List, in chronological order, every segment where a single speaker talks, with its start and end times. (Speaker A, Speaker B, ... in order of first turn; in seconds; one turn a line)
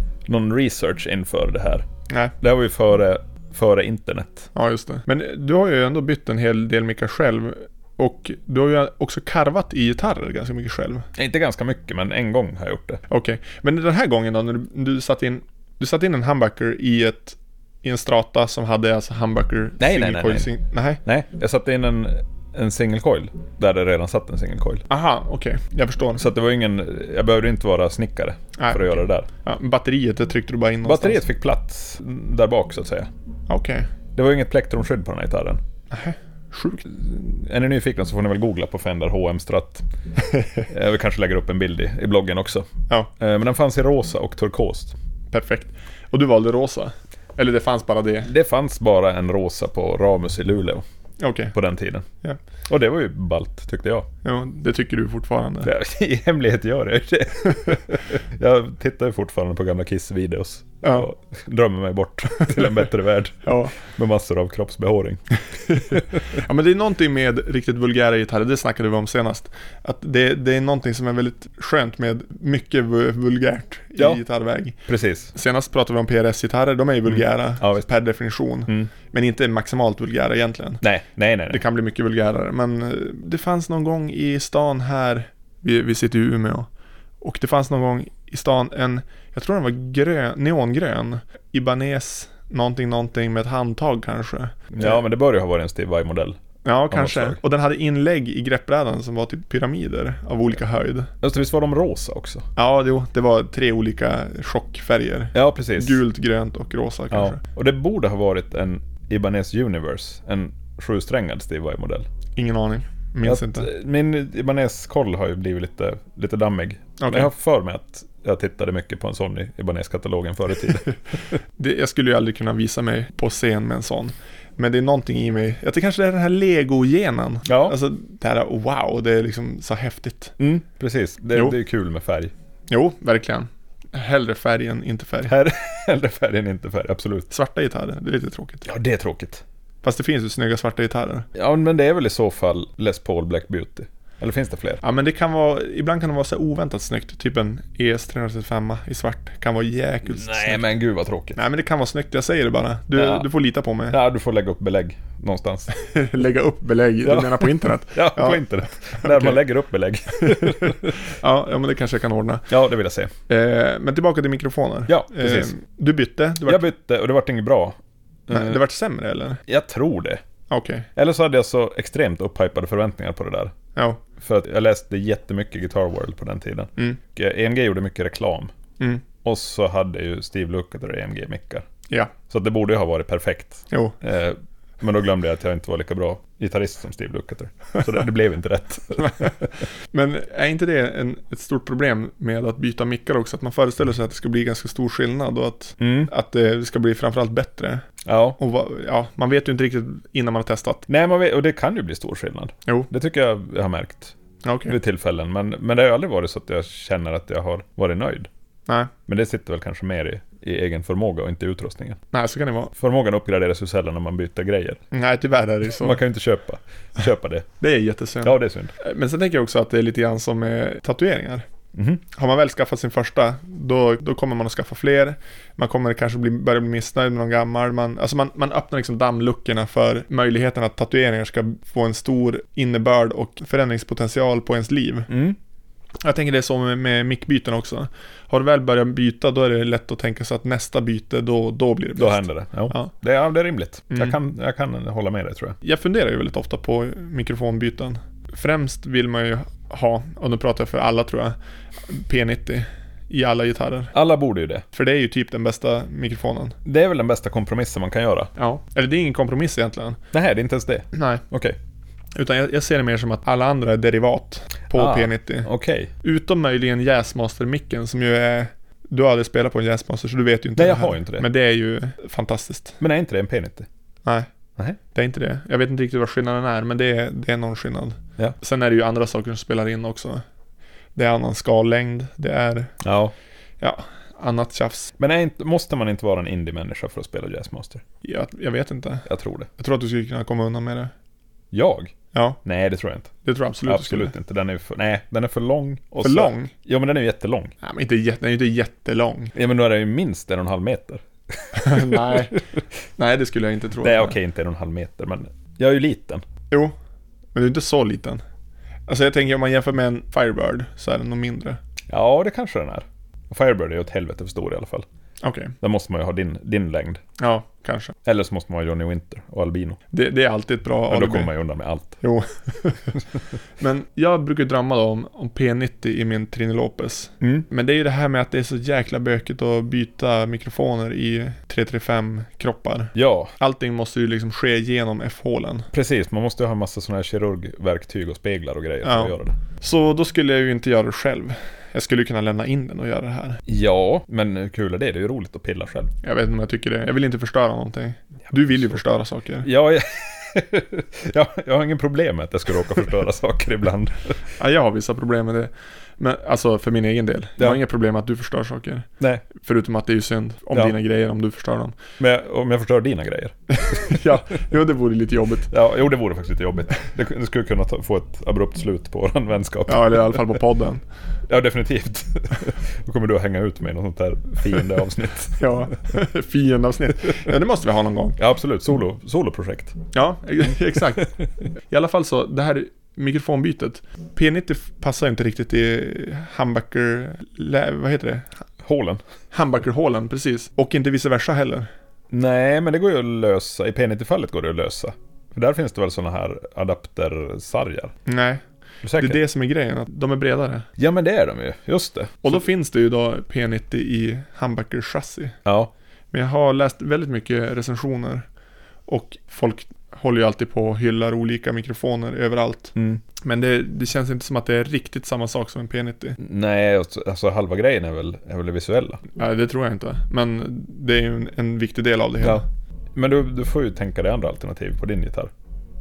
Speaker A: 0.2-1.9
Speaker A: 2.4-4.5
Speaker B: 4.5-11.1
Speaker A: 11.2-13.0
Speaker B: 13.1-21.0
Speaker A: 19.8-20.5
Speaker A: 21.0-24.8
Speaker B: 24.9-26.2
Speaker A: 26.2-29.3
Speaker B: 28.6-31.2
Speaker A: 30.8-33.1
Speaker B: 33.5-33.9
Speaker A: 34.1-35.6
Speaker B: 35.9-36.8
Speaker A: 36.8-39.9
Speaker B: 40.3-40.6
Speaker A: 40.7-42.7
Speaker A: 43.2-44.9
Speaker B: 45.3-48.3
Speaker A: 48.2-50.8
Speaker B: 51.2-51.5
Speaker A: 51.5-52.0
Speaker A: 52.7-54.0
Speaker B: 54.2-55.7
Speaker A: 55.6-65.2
Speaker B: 60.8-61.1
Speaker B: 63.4-63.7
Speaker B: 65.7-74.8
Speaker A: 65.7-66.2
Speaker A: 74.9-75.3
Speaker B: 75.3-80.8
Speaker A: 77.1-77.9
Speaker A: 80.8-81.6
Speaker B: 81.5-86.7
Speaker B: 87.2-95.0
Speaker A: 94.7-96.4
Speaker B: 96.7-101.1
Speaker A: 96.9-97.4
Speaker A: 101.2-102.4
Speaker B: 102.5-107.4
Speaker A: 105.3-106.0
Speaker A: 107.1-112.0
Speaker B: 112.4-113.7
Speaker A: 113.2-120.9
Speaker B: 117.0-117.3
Speaker B: 121.6-130.4
Speaker A: 127.5-127.8
Speaker A: 130.4-132.3
Speaker B: 132.7-135.3
Speaker A: 135.3-137.3
Speaker B: 137.3-138.7
Speaker A: 138.7-139.4
Speaker B: 139.8-141.2
Speaker A: 141.3-144.8
Speaker B: 144.8-150.6
Speaker A: 150.1-151.4
Speaker B: 151.3-154.0
Speaker A: 152.9-153.3
Speaker A: 153.9-155.7
Speaker B: 155.7-158.4
Speaker A: 157.0-161.0
Speaker B: 159.0-159.4
Speaker B: 160.2-162.5
Speaker A: 162.5-163.1
Speaker B: 163.3-166.6
Speaker A: 164.9-165.5
Speaker A: 166.5-168.6
Speaker B: 168.3-169.4
Speaker A: 169.5-170.2
Speaker B: 170.5-170.9
Speaker A: 171.0-173.5
Speaker A: 174.2-178.5
Speaker A: 179.2-181.7
Speaker A: 182.3-189.5
Speaker B: 183.7-184.0
Speaker B: 189.9-197.8
Speaker A: 195.8-196.1
Speaker A: 198.0-198.4
Speaker B: 198.4-200.8
Speaker A: 200.9-204.2
Speaker B: 204.4-204.8
Speaker A: 204.7-208.3
Speaker A: 209.1-212.0
Speaker B: 212.1-212.7
Speaker A: 212.8-214.8
Speaker B: 214.9-216.0
Speaker A: 215.8-217.5
Speaker B: 217.6-221.5
Speaker A: 218.2-218.7
Speaker A: 221.7-222.0
Speaker B: 222.1-235.1
Speaker A: 235.1-235.4
Speaker B: 236.0-242.9
Speaker A: 242.0-245.6
Speaker B: 243.9-244.2
Speaker B: 245.6-251.3
Speaker B: 251.9-253.9
Speaker A: 253.9-254.7
Speaker B: 254.7-256.6
Speaker A: 256.6-258.3
Speaker B: 258.4-260.0
Speaker A: 260.1-261.6
Speaker B: 260.9-261.2
Speaker B: 262.1-265.5
Speaker A: 264.7-265.9
Speaker B: 266.0-272.8
Speaker A: 270.6-271.2
Speaker A: 272.8-273.7
Speaker B: 274.9-280.2
Speaker B: 281.0-282.7
Speaker A: 282.8-283.1
Speaker B: 283.6-284.9
Speaker A: 285.0-287.8
Speaker B: 288.0-289.1
Speaker A: 289.1-289.5
Speaker B: 289.6-290.9
Speaker A: 291.5-293.1
Speaker B: 292.1-292.4
Speaker B: 293.2-294.1
Speaker A: 293.6-297.5
Speaker B: 296.0-296.5
Speaker B: 297.6-299.3
Speaker A: 299.3-302.4
Speaker B: 301.6-302.4
Speaker B: 303.0-304.1
Speaker A: 303.8-306.2
Speaker B: 307.3-308.2
Speaker B: 308.9-311.6
Speaker A: 311.9-314.8
Speaker B: 315.2-315.5
Speaker A: 315.6-317.0
Speaker B: 317.2-317.9
Speaker A: 318.0-319.8
Speaker B: 319.9-321.3
Speaker A: 320.9-321.9
Speaker B: 322.0-323.0
Speaker B: 323.6-335.7
Speaker A: 327.2-327.4
Speaker A: 332.9-333.3
Speaker A: 335.7-339.4
Speaker B: 338.8-343.4
Speaker A: 343.5-345.9
Speaker B: 346.0-349.5
Speaker A: 349.4-354.2
Speaker B: 354.4-361.8
Speaker A: 359.0-359.2
Speaker A: 362.0-364.0
Speaker B: 363.5-365.5
Speaker A: 365.5-370.3
Speaker B: 369.7-370.8
Speaker A: 371.3-375.5
Speaker B: 375.4-378.2
Speaker A: 378.2-379.8
Speaker B: 379.9-381.1
Speaker B: 381.7-388.3
Speaker A: 388.6-389.0
Speaker B: 389.3-391.7
Speaker A: 392.1-397.9
Speaker B: 398.1-398.4
Speaker A: 398.8-399.2
Speaker B: 398.9-400.7
Speaker A: 400.8-402.4
Speaker B: 402.2-405.4
Speaker A: 405.4-405.7
Speaker B: 406.1-408.2
Speaker B: 408.9-416.2
Speaker A: 412.8-413.0
Speaker A: 416.2-419.0
Speaker B: 419.2-422.4
Speaker A: 422.9-425.3